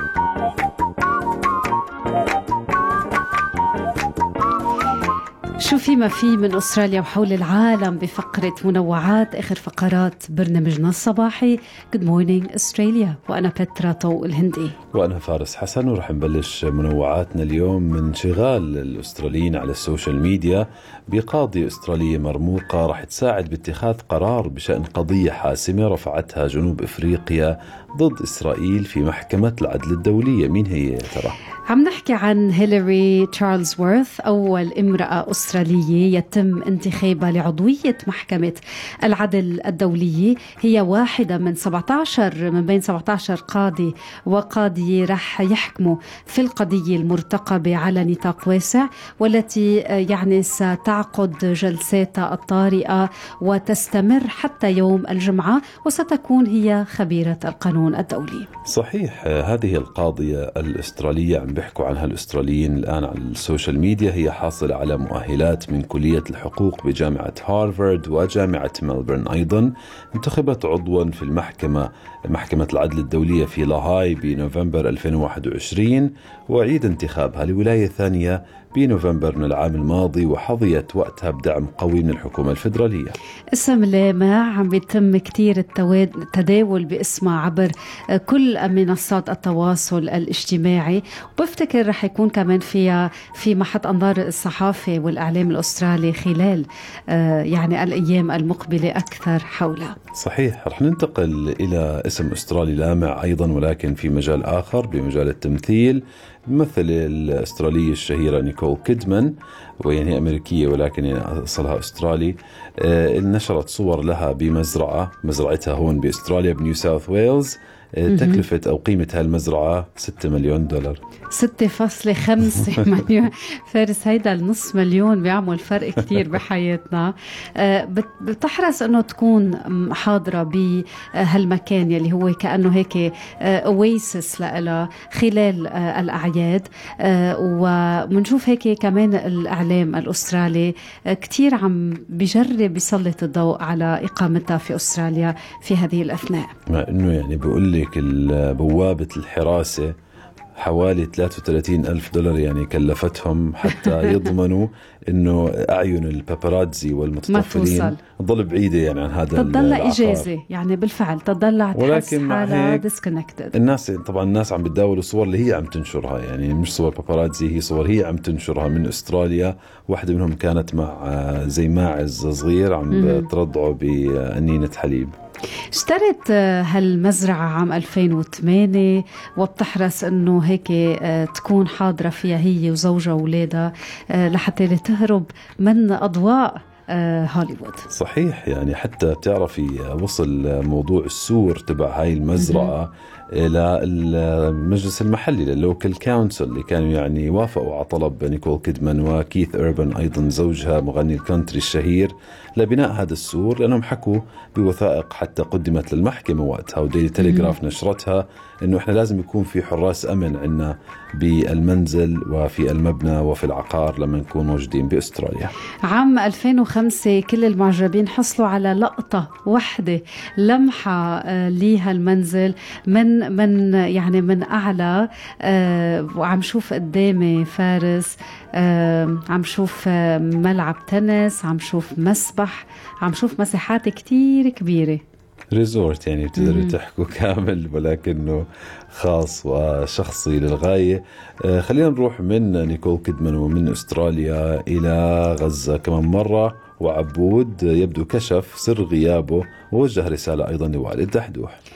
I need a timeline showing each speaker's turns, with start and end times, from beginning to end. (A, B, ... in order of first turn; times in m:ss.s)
0:05.6-0:14.8 A
0:14.9-0:31.4 B
0:31.7-0:58.5 A
0:58.7-1:23.2 B
1:23.5-1:40.0 A
1:40.2-2:01.0 B
1:58.1-1:58.4 A
2:01.3-2:26.6 A
2:26.7-2:29.9 B
2:30.6-2:40.3 B
2:33.8-2:34.0 A
2:37.3-2:38.0 A
2:39.4-2:43.6 A
2:41.7-2:42.8 B
2:43.5-2:55.1 B
2:52.9-2:53.3 A
2:55.7-3:07.9 A
3:07.9-3:35.5 B
3:12.4-3:12.7 A
3:27.2-3:27.6 A
3:35.8-3:55.0 A
3:55.5-4:11.6 B
3:56.4-3:56.8 A